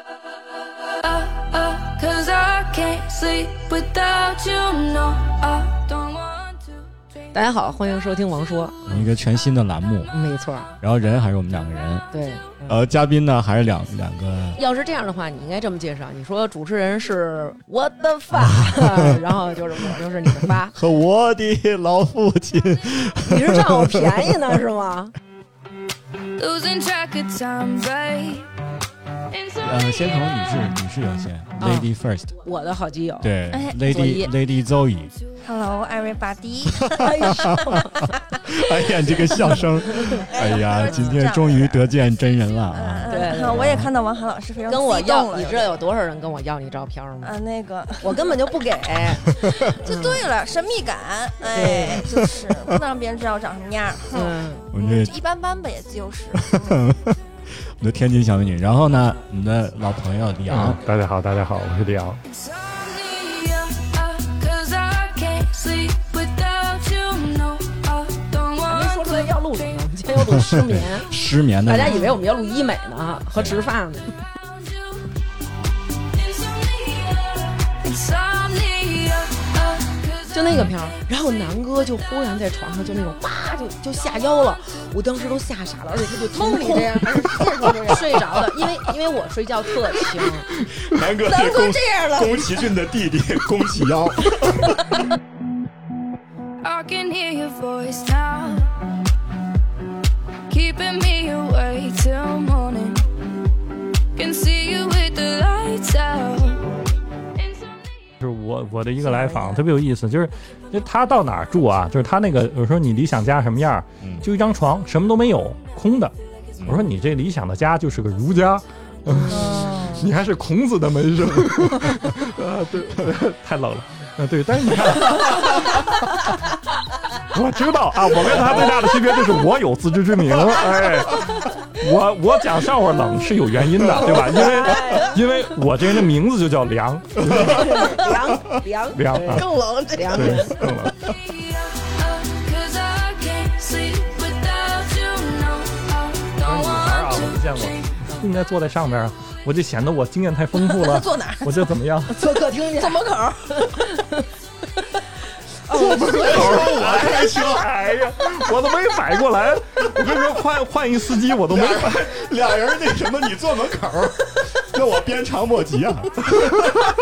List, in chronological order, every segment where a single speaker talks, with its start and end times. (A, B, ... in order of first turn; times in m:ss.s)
0:01.0-0:06.6 A
0:07.3-0:09.1 B
0:08.9-0:10.1 C
0:10.1-0:10.7 B
0:10.8-0:12.1 C
0:12.1-0:12.8 B
0:12.7-0:14.6 C
0:14.6-0:20.8 B
0:20.7-0:24.1 C
0:23.3-0:25.1 B
0:26.4-0:28.4 A
0:29.6-0:32.3 C
0:31.6-0:31.9 B
0:32.4-0:33.3 B
0:33.2-0:35.2 C
0:33.5-0:33.8 D
0:33.8-0:34.3 B
0:35.4-0:37.8 D
0:37.0-0:37.9 B
0:38.4-0:43.9 C
0:40.1-0:42.0 D
0:42.7-0:45.7 D
0:43.1-0:43.8 B
0:44.7-0:47.4 B
0:47.2-0:49.0 D
0:48.0-0:49.2 B
0:49.8-0:56.7 D
0:49.8-0:50.3 B
0:51.5-0:52.1 B
0:54.1-0:54.7 B
0:54.7-0:55.1 C
0:56.3-0:57.2 C
0:57.8-1:00.8 C
1:00.5-1:02.2 E
1:02.7-1:09.3 A
1:08.6-1:11.1 B
1:10.5-1:12.2 C
1:11.6-1:14.1 B
1:13.4-1:13.6 C
1:16.2-1:20.0 A
1:20.3-1:30.5 B
1:30.7-1:34.7 C
1:31.3-1:32.3 D
1:36.6-1:38.7 A
1:40.5-1:43.0 A
1:44.2-1:46.8 A
1:48.2-2:06.2 E
1:49.1-1:49.6 D
1:56.6-1:56.9 C
1:59.3-2:00.0 D
2:07.3-2:18.0 E
2:13.9-2:15.2 B
2:17.3-2:20.6 B
2:17.7-2:18.2 D
2:18.9-2:19.5 E
2:19.3-2:20.5 D
2:20.1-2:21.1 E
2:21.8-2:27.2 A
2:26.3-2:32.2 E
2:30.5-2:31.5 D
2:32.1-2:33.0 B
2:32.7-2:33.7 D
2:33.5-2:34.2 B
2:35.7-2:42.1 E
2:35.7-2:36.6 B
2:36.0-2:37.7 C
2:41.5-2:46.7 C